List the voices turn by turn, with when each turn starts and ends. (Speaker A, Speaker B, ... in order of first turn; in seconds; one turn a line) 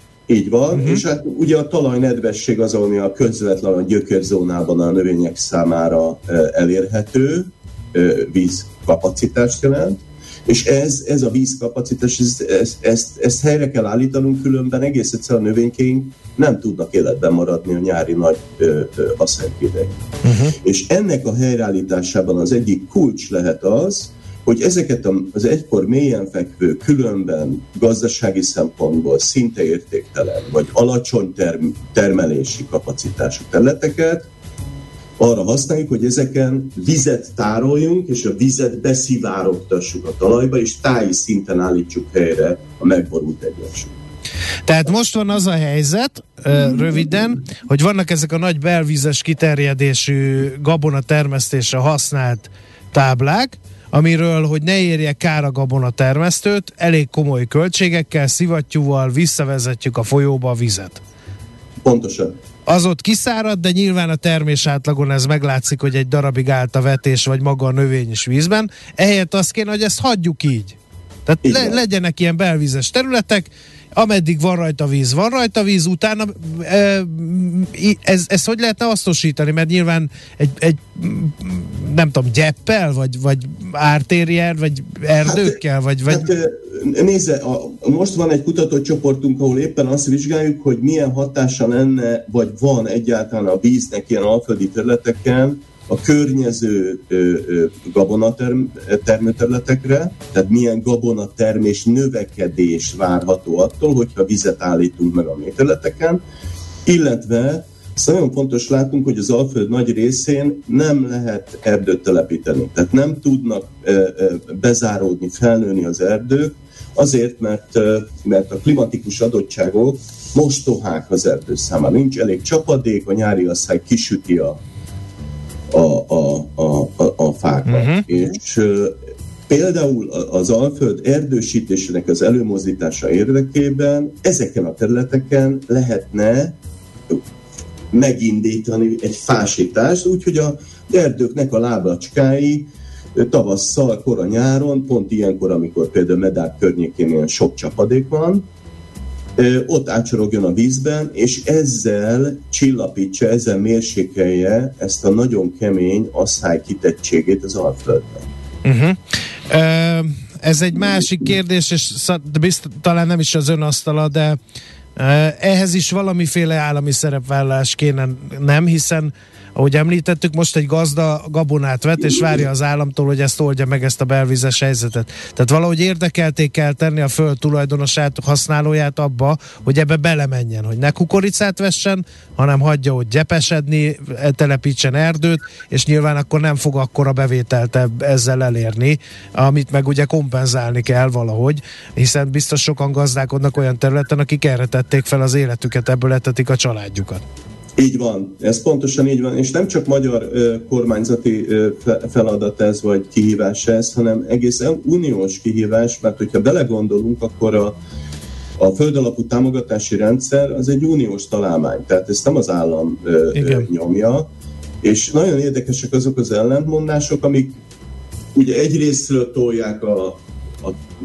Speaker A: 0.3-20.0
Speaker B: 0.7-1.0
Speaker B: 20.2-20.5
Speaker A: 20.6-34.3
Speaker A: 35.2-44.0
Speaker B: 44.6-61.0
Speaker A: 61.8-62.4
Speaker B: 62.7-86.3
Speaker A: 71.4-71.8
Speaker A: 85.2-106.2
Speaker A: 106.8-124.6
Speaker A: 125.7-136.6
Speaker B: 127.7-128.0
Speaker A: 137.9-148.4
Speaker A: 149.4-158.3
Speaker B: 158.6-159.0
Speaker B: 159.5-164.4
Speaker B: 164.9-197.2
Speaker A: 197.8-207.8
Speaker A: 208.6-214.3
Speaker B: 213.3-213.7
Speaker A: 214.8-217.6
Speaker A: 218.3-220.8